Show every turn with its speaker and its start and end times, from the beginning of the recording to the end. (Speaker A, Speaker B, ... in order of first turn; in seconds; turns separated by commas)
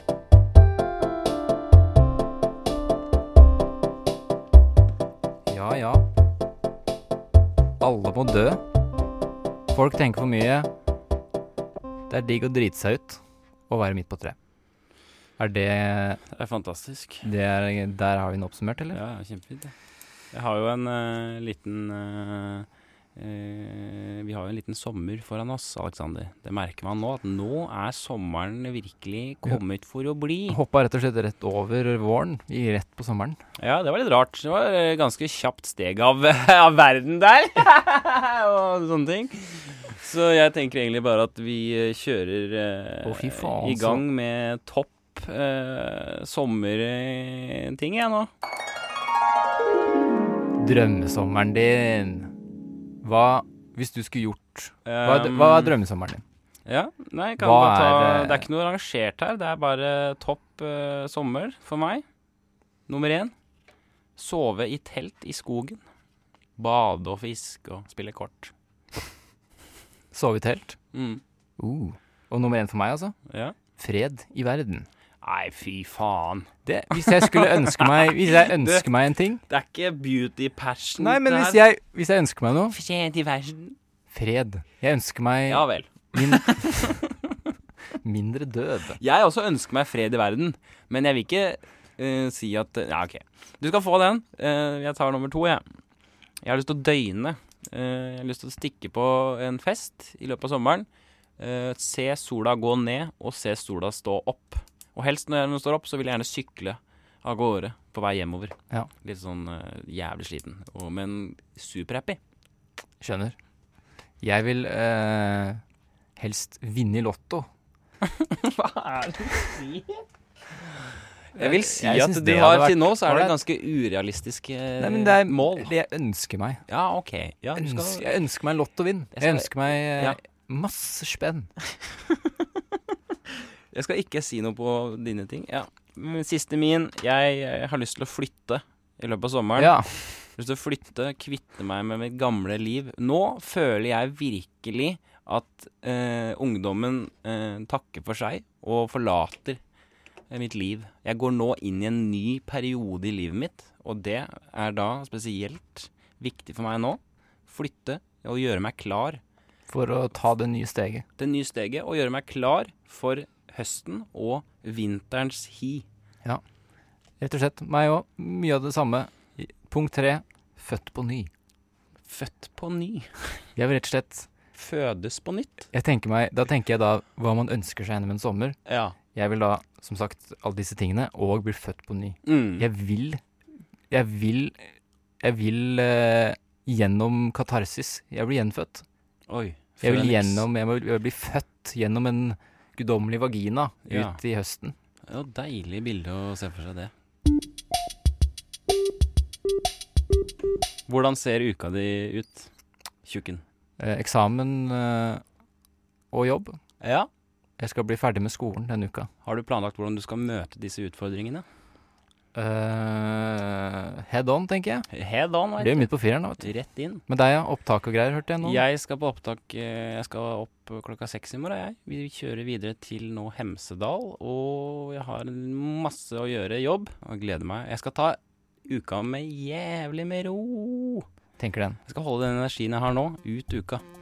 Speaker A: 5.5-6.0, Speaker A: 7.8-8.6, Speaker A: 9.7-10.7, Speaker A: 12.1-14.3, Speaker A: 15.4-16.2, Speaker B: 16.3-17.3, Speaker A: 17.2-19.0, Speaker B: 18.9-19.7, Speaker B: 20.3-30.6, Speaker A: 30.5-33.4, Speaker B: 33.6-48.3, Speaker A: 43.0-44.0, Speaker A: 50.6-52.3, Speaker A: 53.0-56.2, Speaker B: 54.8-55.7, Speaker B: 56.6-62.0, Speaker A: 57.4-58.5, Speaker B: 62.9-63.3, Speaker B: 64.2-65.8, Speaker B: 66.6-68.5, Speaker A: 70.1-70.8, Speaker B: 70.9-71.2, Speaker A: 71.6-73.2, Speaker B: 73.3-73.5, Speaker A: 73.8-74.9, Speaker B: 75.2-78.8, Speaker A: 76.7-79.4, Speaker B: 79.5-81.6, Speaker A: 81.0-82.8, Speaker B: 82.7-83.8, Speaker A: 84.1-87.0, Speaker B: 85.5-87.5, Speaker A: 88.0-89.0, Speaker B: 89.0-95.6, Speaker B: 96.4-100.8, Speaker B: 101.4-112.2, Speaker A: 113.0-113.3, Speaker A: 114.2-115.6, Speaker A: 116.2-117.5, Speaker B: 118.0-120.0, Speaker B: 121.3-125.7, Speaker A: 121.3-123.3, Speaker A: 124.8-126.6, Speaker B: 126.7-128.1, Speaker A: 127.5-131.5, Speaker B: 129.1-130.2, Speaker B: 132.0-132.3, Speaker B: 133.7-149.6, Speaker A: 139.6-140.0, Speaker B: 150.3-159.2, Speaker A: 159.7-161.0, Speaker B: 161.2-165.8, Speaker A: 167.2-171.3, Speaker B: 172.1-173.4, Speaker A: 173.6-174.3, Speaker B: 174.5-175.7, Speaker A: 175.7-178.6, Speaker B: 178.7-178.9, Speaker A: 179.1-183.2, Speaker B: 182.2-182.7, Speaker A: 183.9-188.8, Speaker B: 189.3-190.4, Speaker A: 189.8-194.7, Speaker B: 193.9-194.2, Speaker B: 195.1-196.9, Speaker B: 200.9-202.5, Speaker B: 203.0-203.4, Speaker A: 203.8-205.2, Speaker A: 206.1-206.6, Speaker B: 206.8-207.1, Speaker A: 207.6-209.1, Speaker B: 209.2-211.4, Speaker A: 212.3-214.9, Speaker B: 214.9-217.0, Speaker A: 215.6-216.5, Speaker A: 217.1-218.6, Speaker B: 218.4-231.1, Speaker A: 231.4-231.8, Speaker B: 231.8-233.8